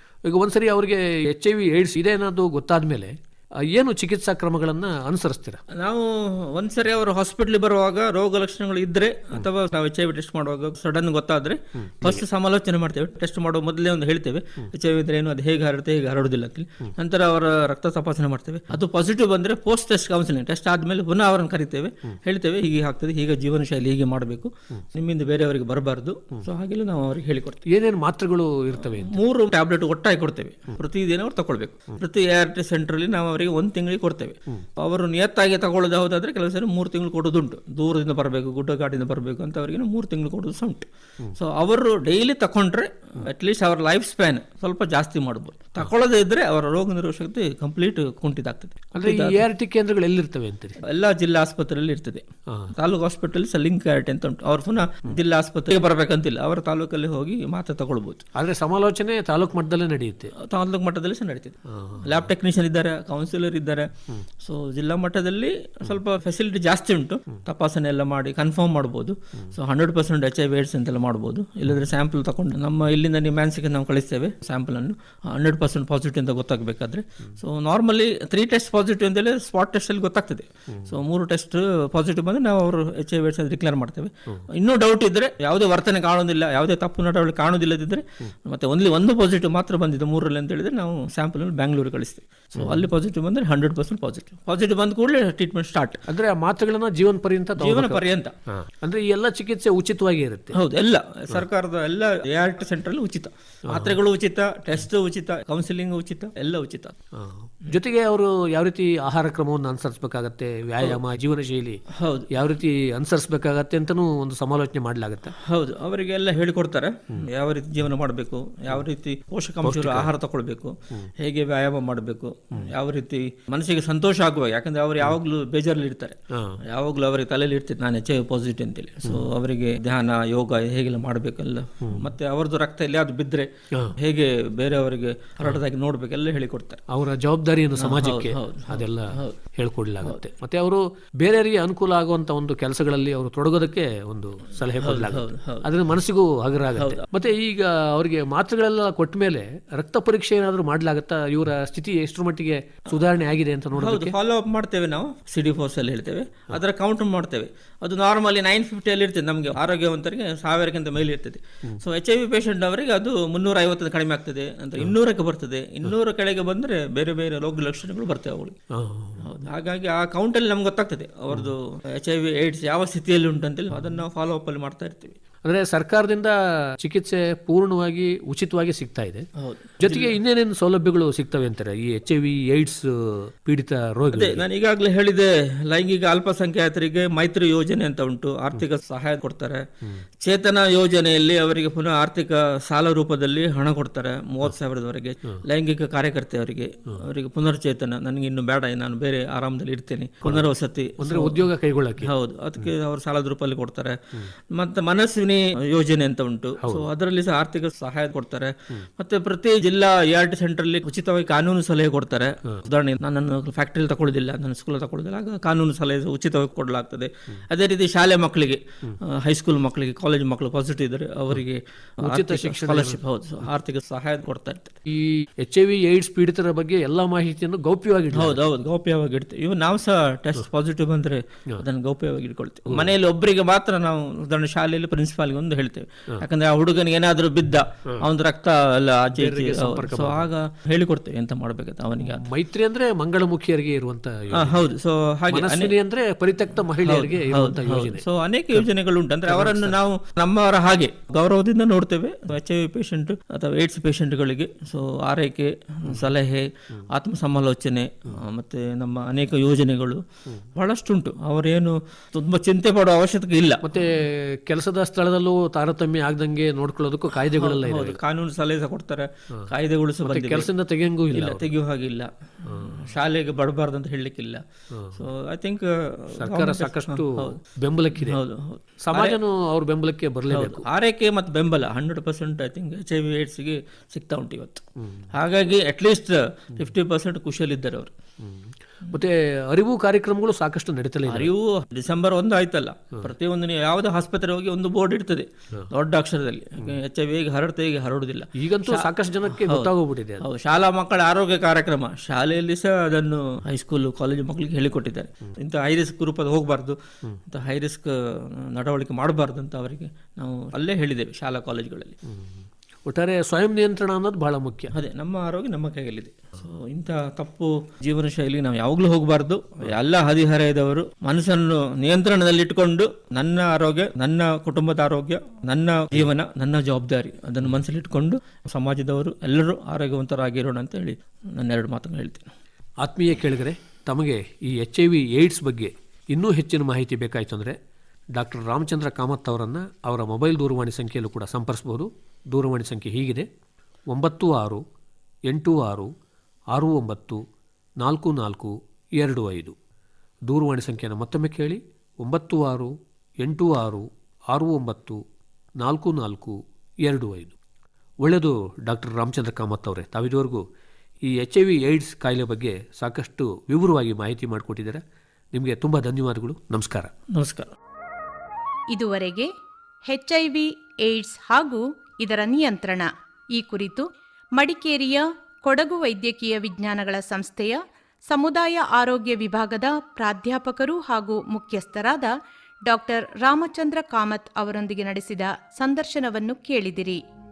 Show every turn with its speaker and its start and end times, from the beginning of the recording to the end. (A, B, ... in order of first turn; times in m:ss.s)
0:00.2-0:05.6 A
0:05.7-0:27.6 B
0:11.8-0:12.2 A
0:27.7-0:29.2 A
0:28.9-0:49.4 B
0:48.9-0:50.8 A
0:50.8-0:58.3 B
0:52.5-0:52.7 A
0:58.4-1:00.3 A
1:00.3-1:36.0 B
1:01.7-1:02.2 A
1:32.6-1:32.9 A
1:36.1-1:40.6 A
1:37.6-1:38.3 B
1:40.5-1:47.0 B
1:43.7-1:44.0 A
1:47.1-1:55.3 A
1:51.9-1:52.3 B
1:55.4-2:16.8 B
1:59.6-2:00.1 A
2:06.3-2:06.6 A
2:16.9-2:34.2 A
2:17.8-2:19.4 B
2:24.8-2:25.7 B
2:26.8-2:27.1 B
2:33.8-2:48.6 B
2:48.7-2:49.3 A
2:49.2-2:55.2 B
2:55.4-2:59.2 A
2:59.4-3:00.2 B
2:59.8-3:04.4 A
3:04.1-3:09.7 B
3:10.2-3:21.5 B
3:20.2-3:22.7 A
3:22.0-3:44.8 B
3:26.6-3:26.9 A
3:42.0-3:43.0 A
3:44.9-3:48.4 A
3:48.1-4:02.2 B
3:59.2-4:00.3 A
4:02.0-4:04.7 A
4:04.3-4:05.7 B
4:05.3-4:08.7 A
4:06.8-4:20.0 B
4:09.3-4:09.8 A
4:20.6-4:23.8 B
4:23.6-4:28.0 A
4:27.3-4:30.5 B
4:30.0-4:31.5 A
4:31.1-4:37.4 B
4:32.5-4:32.9 A
4:34.7-4:35.0 A
4:36.2-4:38.2 A
4:37.9-4:39.2 B
4:38.8-4:40.7 A
4:40.3-4:47.9 B
4:48.2-4:51.3 A
4:51.1-5:12.0 B
4:58.4-5:00.3 A
5:12.9-5:14.7 A
5:14.7-5:32.3 B
5:32.8-5:37.6 A
5:38.1-5:43.3 A
5:43.9-5:44.6 A
5:45.3-5:45.9 A
5:46.5-5:47.2 A
5:47.8-5:49.6 A
5:50.3-5:55.0 A
5:55.6-5:57.4 A
5:58.0-6:00.4 A
6:01.0-6:04.8 A
6:05.3-6:06.9 A
6:07.1-6:07.5 B
6:08.7-6:09.3 C
6:09.9-6:22.2 C
6:22.7-6:27.0 C